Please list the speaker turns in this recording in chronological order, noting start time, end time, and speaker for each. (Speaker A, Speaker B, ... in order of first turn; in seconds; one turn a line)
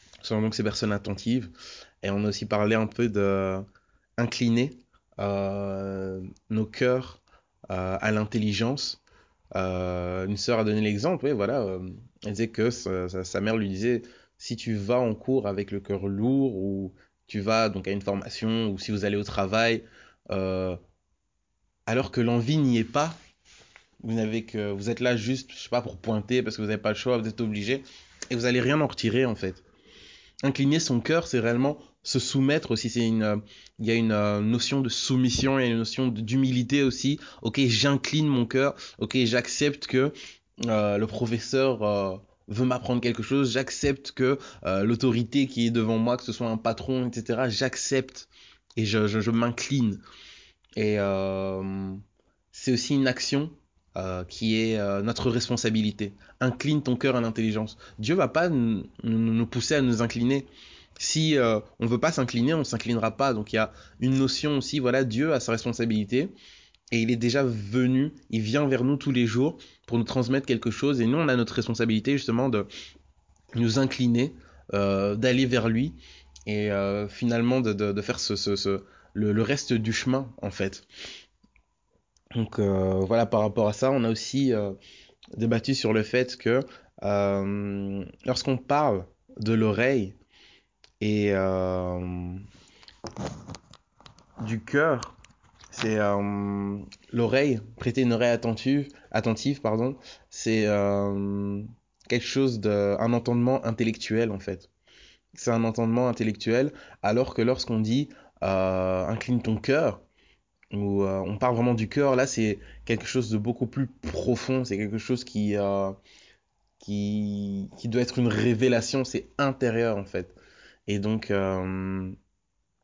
Speaker A: 0.2-3.6
Speaker A: 4.2-9.0
Speaker A: 9.6-20.8
Speaker A: 21.9-23.2
Speaker A: 24.0-29.6
Speaker A: 30.4-40.1
Speaker A: 40.7-50.0
Speaker A: 50.8-66.3
Speaker A: 66.9-72.7
Speaker A: 73.5-80.9
Speaker A: 82.3-84.8
Speaker A: 85.3-90.2
Speaker A: 91.0-92.4
Speaker A: 94.4-95.2
Speaker A: 95.7-104.7
Speaker A: 105.3-110.0
Speaker A: 110.7-116.0
Speaker A: 116.8-120.4
Speaker A: 120.9-122.2